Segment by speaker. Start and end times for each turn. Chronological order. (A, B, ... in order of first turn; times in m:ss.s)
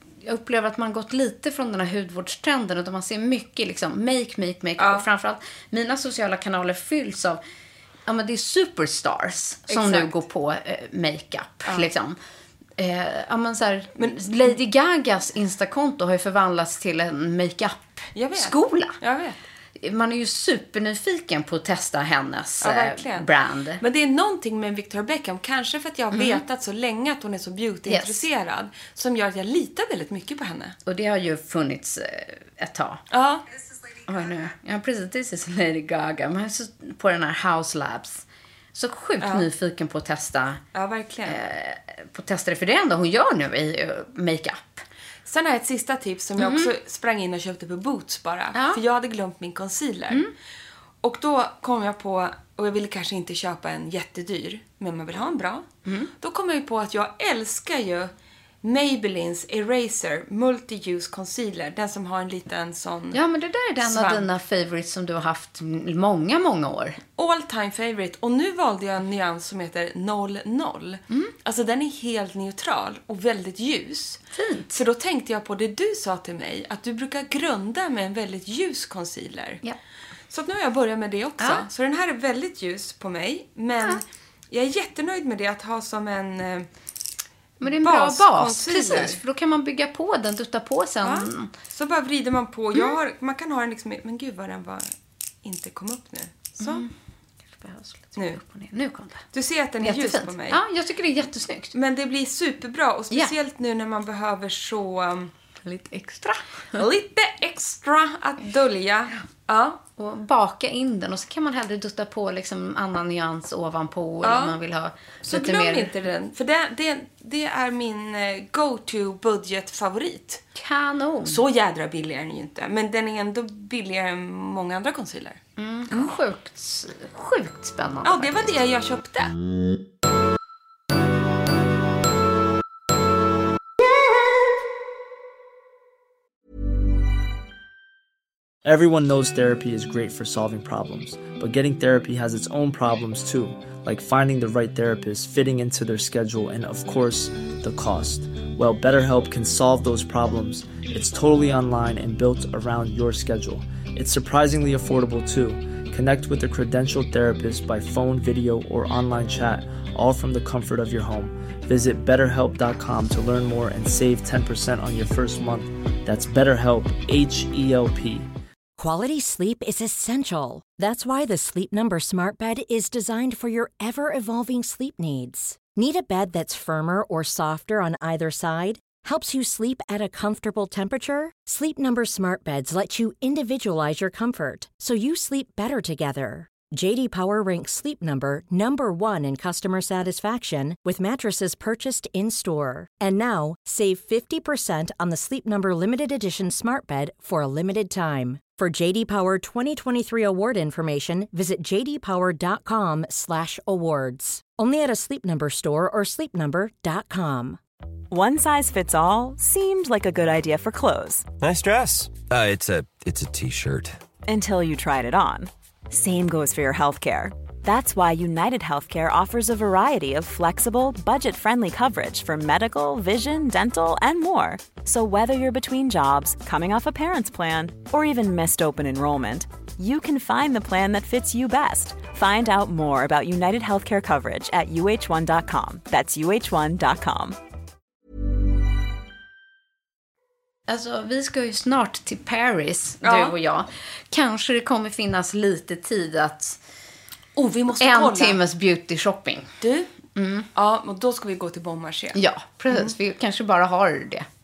0:00.2-0:07.4 A
0:04.8-0:05.1 B
0:08.1-0:12.2 A
0:09.7-0:10.1 B
0:11.6-0:11.9 B
0:12.8-0:19.0 A
0:14.0-0:14.6 B
0:18.1-0:19.4 B
0:19.8-0:23.8 A
0:22.6-0:30.8 B
0:26.1-0:26.4 A
0:27.9-0:28.2 A
0:30.8-0:33.0 A
0:33.1-0:33.4 B
0:34.1-0:40.6 A
0:39.2-0:39.5 B
0:40.7-0:41.4 B
0:41.2-0:44.8 A
0:45.2-0:50.3 B
0:46.4-0:46.7 A
0:48.5-0:48.8 A
0:51.0-0:55.6 B
0:55.8-0:56.1 A
0:56.2-0:58.1 B
0:58.6-1:03.2 B
1:03.1-1:07.0 A
1:03.8-1:04.3 B
1:07.2-1:19.6 B
1:14.3-1:14.8 A
1:20.3-1:26.7 B
1:27.6-1:31.5 A
1:27.6-1:29.2 B
1:31.0-1:36.8 B
1:36.6-1:36.9 A
1:37.5-1:39.2 A
1:39.3-1:40.6 B
1:39.8-1:41.7 A
1:41.7-1:45.3 B
1:45.6-1:46.8 A
1:46.7-1:49.8 B
1:50.0-1:55.9 A
1:54.2-1:54.6 B
1:55.2-2:00.4 B
2:00.5-2:01.4 A
2:01.2-2:06.1 B
2:05.6-2:08.5 A
2:08.0-2:09.3 B
2:18.6-2:48.3 C
2:48.8-3:27.6 D
3:28.1-3:31.3 E
3:31.4-3:34.0 F
3:34.2-3:57.4 E
4:00.7-4:06.6 A
4:03.0-4:03.3 B
4:07.4-4:08.4 B
4:07.8-4:09.5 A
4:09.6-4:09.9 B
4:10.1-4:10.5 A
4:10.5-4:12.9 B
4:12.1-4:14.3 A